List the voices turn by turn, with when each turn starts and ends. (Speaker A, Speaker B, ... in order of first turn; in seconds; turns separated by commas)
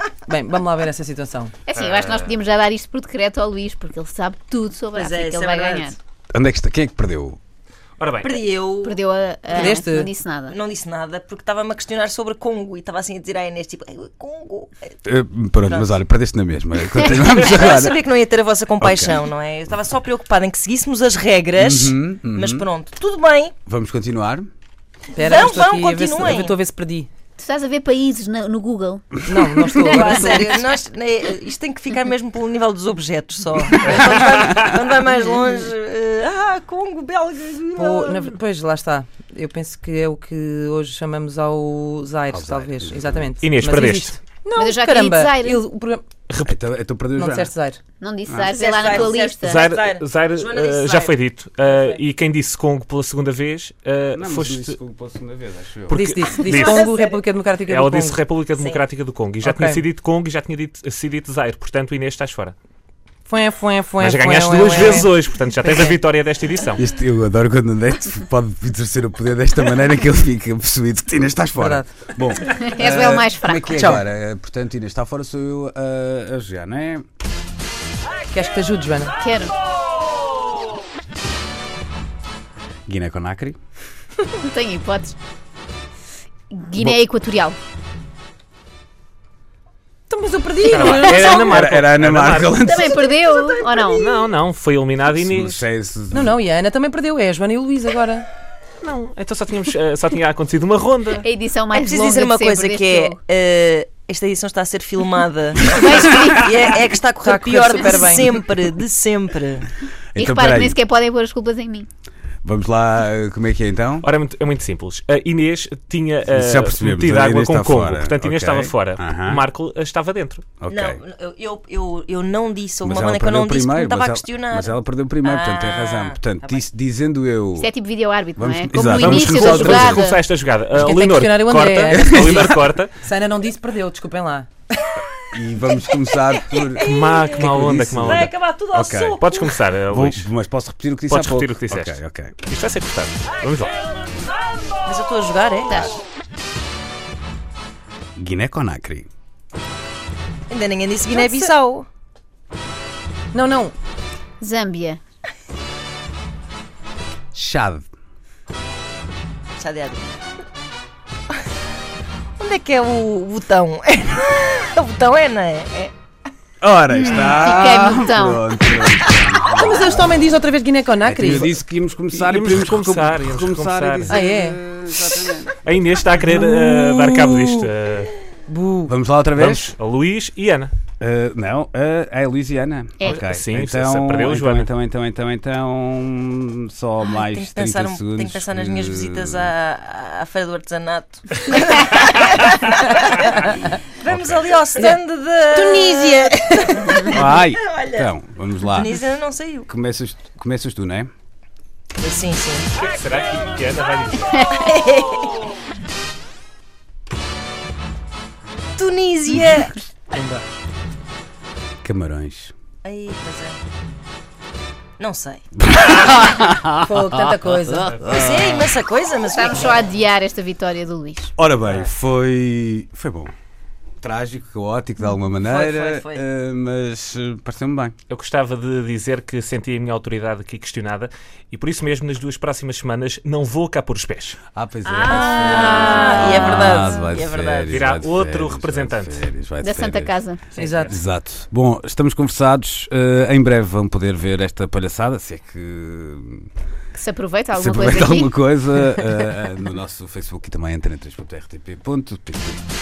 Speaker A: 0.3-1.5, Speaker B: 1.7-6.0, Speaker C: 1.7-2.3, Speaker D: 4.9-6.0, Speaker E: 6.3-7.4, Speaker C: 8.0-8.4, Speaker D: 8.2-9.0, Speaker B: 8.8-10.6, Speaker D: 9.5-9.8, Speaker A: 9.5-10.1, Speaker D: 10.5-15.0, Speaker E: 15.1-18.0, Speaker D: 15.6-16.0, Speaker D: 16.9-23.5, Speaker E: 18.8-19.2, Speaker E: 21.6-22.7, Speaker E: 23.7-24.5, Speaker A: 25.1-27.1, Speaker D: 25.2-26.6, Speaker B: 27.4-30.4, Speaker A: 29.3-30.6, Speaker D: 29.6-38.4, Speaker C: 33.9-34.8, Speaker A: 33.9-34.6, Speaker A: 37.7-46.0, Speaker E: 42.3-43.4, Speaker C: 43.4-44.2, Speaker B: 44.5-45.6, Speaker C: 46.3-46.6, Speaker E: 46.5-47.5, Speaker A: 47.1-47.8, Speaker B: 48.0-49.7, Speaker E: 48.3-48.5, Speaker D: 48.5-52.0, Speaker C: 49.4-54.8, Speaker E: 54.1-56.1, Speaker C: 55.9-56.9, Speaker A: 55.9-58.2, Speaker D: 56.4-57.2, Speaker C: 57.7-62.5, Speaker D: 58.6-58.8, Speaker A: 59.4-59.8, Speaker A: 63.3-66.0, Speaker C: 64.0-66.8, Speaker E: 66.8-77.0, Speaker A: 71.5-71.9, Speaker B: 72.4-73.8, Speaker A: 73.7-74.0, Speaker A: 78.3-79.2, Speaker B: 79.2-79.5, Speaker E: 82.9-83.6, Speaker B: 84.4-85.2, Speaker B: 86.5-87.6, Speaker A: 90.1-91.6, Speaker C: 90.7-92.7, Speaker B: 90.7-91.5, Speaker E: 91.0-93.0, Speaker B: 92.6-94.0, Speaker D: 92.6-94.3, Speaker C: 93.9-95.6, Speaker E: 95.1-96.4, Speaker A: 96.1-98.3, Speaker C: 98.8-101.2, Speaker B: 101.2-103.2, Speaker D: 101.7-109.7, Speaker B: 105.6-106.5, Speaker A: 107.1-108.4, Speaker E: 110.1-110.8, Speaker B: 110.2-111.9, Speaker E: 112.4-114.1, Speaker C: 114.0-120.5, Speaker E: 116.3-119.5, Speaker E: 120.6-121.0, Speaker D: 120.7-126.6, Speaker E: 122.8-127.7, Speaker B: 127.6-130.2, Speaker E: 128.3-130.2, Speaker C: 128.9-133.0, Speaker A: 130.7-134.5, Speaker E: 131.9-132.7, Speaker E: 135.3-139.2, Speaker D: 135.9-139.6, Speaker C: 136.8-138.3, Speaker C: 139.1-140.3, Speaker E: 139.9-142.4, Speaker C: 141.1-143.7, Speaker D: 144.9-145.9, Speaker E: 148.2-149.1, Speaker D: 150.5-151.9, Speaker A: 151.1-151.5, Speaker A: 153.3-153.7, Speaker B: 154.4-155.0, Speaker E: 157.3-157.9, Speaker D: 159.6-160.0, Speaker D: 162.4-165.9, Speaker E: 166.6-170.2, Speaker B: 166.9-168.5, Speaker D: 168.8-169.6, Speaker A: 169.5-171.6, Speaker E: 171.1-175.6, Speaker C: 172.1-174.2, Speaker A: 174.1-174.6, Speaker C: 175.6-178.1, Speaker A: 176.3-176.6, Speaker D: 176.7-177.4, Speaker A: 178.5-178.9, Speaker E: 178.9-179.8, Speaker C: 179.4-180.7, Speaker E: 181.0-189.5, Speaker C: 183.0-184.7, Speaker D: 187.1-198.1, Speaker E: 194.1-194.6, Speaker A: 194.8-195.0, Speaker A: 195.5-196.9, Speaker E: 197.0-199.0, Speaker D: 198.7-199.7, Speaker E: 199.7-201.1, Speaker D: 202.0-202.7, Speaker C: 202.8-204.5, Speaker D: 204.5-205.4, Speaker D: 208.8-210.2, Speaker E: 211.8-212.5, Speaker D: 212.8-213.6, Speaker D: 215.0-215.5, Speaker E: 215.6-217.0, Speaker A: 216.8-218.0, Speaker E: 217.7-218.7, Speaker C: 217.9-218.2, Speaker D: 218.1-219.9, Speaker B: 219.3-221.3, Speaker E: 221.4-223.3, Speaker E: 224.0-228.0, Speaker D: 225.4-226.2, Speaker C: 228.1-234.4, Speaker E: 234.5-240.2, Speaker D: 234.8-237.8, Speaker B: 235.5-236.3, Speaker C: 237.7-239.2, Speaker B: 239.6-240.4, Speaker A: 240.6-240.9, Speaker C: 240.6-240.9, Speaker E: 240.9-246.5, Speaker B: 246.9-248.3, Speaker E: 247.6-252.6